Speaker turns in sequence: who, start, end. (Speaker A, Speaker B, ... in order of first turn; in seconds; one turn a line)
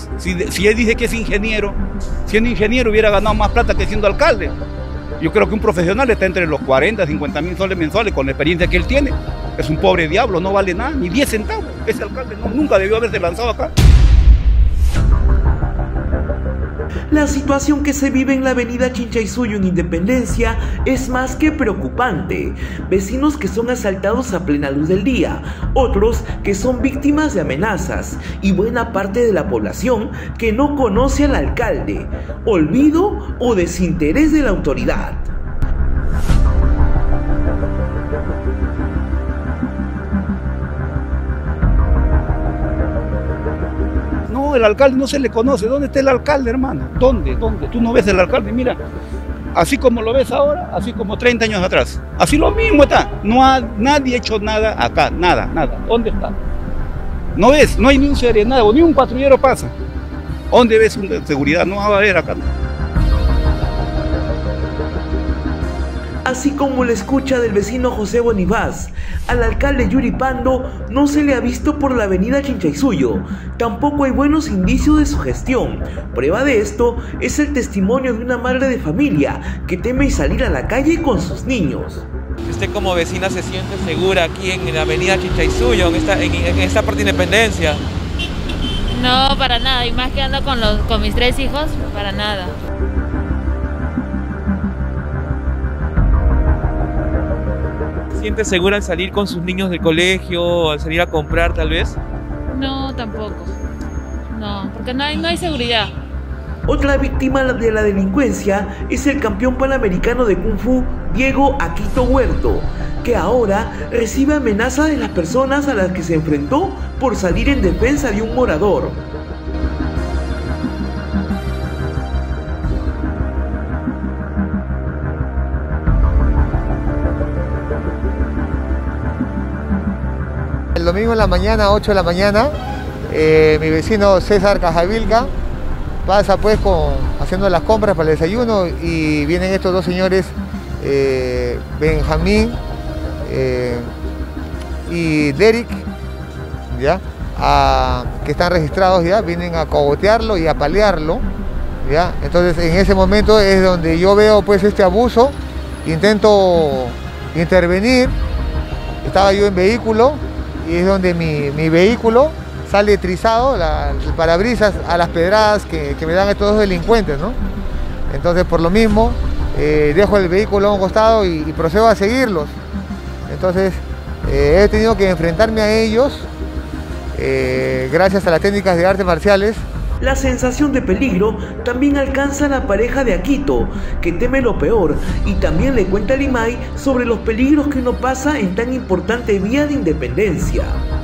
Speaker A: 0.2-4.5
Speaker A: 5.2-13.7
Speaker B: 17.1-35.3
Speaker A: 44.3-48.8
Speaker A: 49.5-56.3
Speaker A: 57.3-59.7
Speaker A: 60.5-62.5
Speaker B: 66.2-82.1
Speaker C: 82.4-87.8
Speaker D: 88.9-92.5
Speaker C: 98.1-102.0
Speaker D: 102.5-103.5
Speaker D: 104.3-105.9
Speaker B: 106.7-119.0
Speaker E: 130.8-132.6
Speaker E: 133.1-135.3
Speaker E: 136.1-142.6
Speaker E: 143.2-143.9
Speaker E: 144.9-145.9
Speaker E: 146.7-151.2
Speaker E: 151.8-158.2
Speaker E: 159.0-167.4
Speaker E: 168.1-172.6
Speaker E: 173.3-176.3
Speaker E: 177.1-179.7
Speaker B: 180.0-190.8